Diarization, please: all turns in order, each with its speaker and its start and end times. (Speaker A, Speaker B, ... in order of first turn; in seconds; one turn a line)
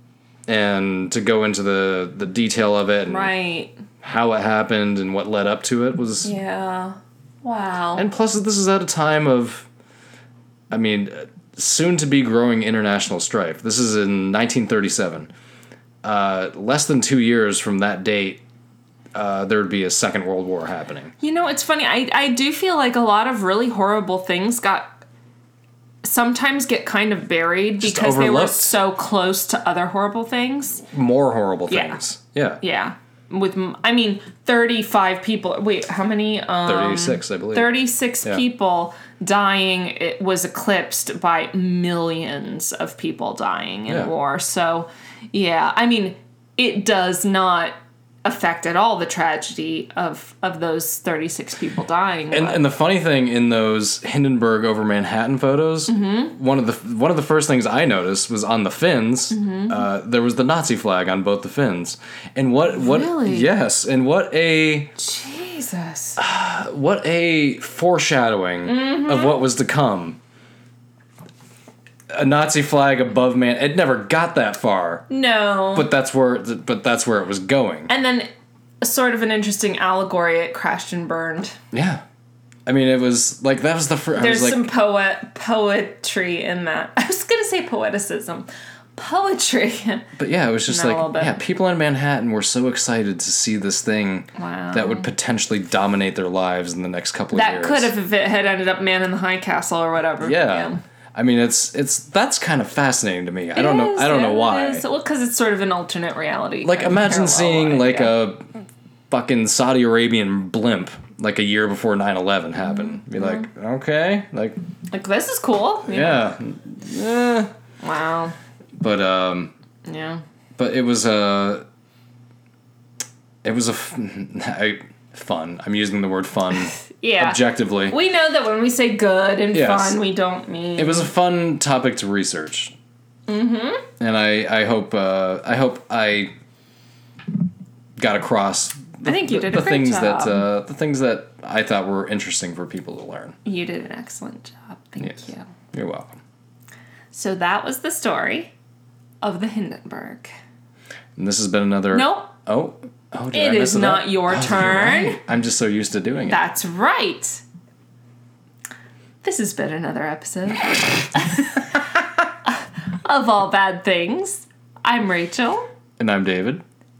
Speaker A: 0.5-3.3
Speaker B: 3.1-3.8
Speaker A: 4.0-6.3
Speaker B: 6.2-8.1
Speaker A: 8.0-9.7
Speaker A: 10.7-15.3
Speaker A: 16.0-18.4
Speaker A: 19.1-21.1
Speaker B: 21.2-24.9
Speaker B: 26.0-30.8
Speaker A: 27.8-28.7
Speaker A: 30.9-32.6
Speaker B: 31.7-32.0
Speaker B: 32.6-52.6
Speaker A: 36.6-38.4
Speaker A: 52.3-64.9
Speaker B: 55.9-56.3
Speaker B: 59.3-59.8
Speaker B: 62.7-63.5
Speaker B: 65.0-66.2
Speaker A: 66.2-70.2
Speaker B: 68.6-69.4
Speaker A: 72.1-75.1
Speaker B: 75.1-75.9
Speaker A: 75.7-77.9
Speaker B: 77.9-78.3
Speaker B: 78.8-81.6
Speaker A: 81.7-82.0
Speaker A: 82.7-84.7
Speaker B: 84.1-90.1
Speaker A: 90.2-97.9
Speaker B: 90.7-91.4
Speaker B: 94.4-95.1
Speaker B: 97.3-100.8
Speaker A: 100.2-104.8
Speaker B: 103.5-108.1
Speaker A: 106.6-108.5
Speaker A: 109.1-114.6
Speaker B: 114.9-116.3
Speaker A: 115.8-117.5
Speaker B: 117.8-118.3
Speaker A: 118.8-119.5
Speaker B: 119.8-120.2
Speaker A: 120.6-121.6
Speaker A: 123.4-128.0
Speaker B: 127.0-131.1
Speaker A: 129.5-130.0
Speaker A: 130.8-132.8
Speaker B: 133.3-133.8
Speaker A: 134.0-136.3
Speaker A: 138.0-143.4
Speaker B: 139.0-140.4
Speaker B: 143.4-145.5
Speaker A: 145.0-146.2
Speaker B: 147.1-148.5
Speaker B: 149.2-150.3
Speaker A: 151.2-156.4
Speaker B: 151.9-152.3
Speaker B: 153.3-155.2
Speaker B: 156.2-157.4
Speaker B: 159.2-161.6
Speaker B: 163.0-165.7
Speaker A: 166.0-166.6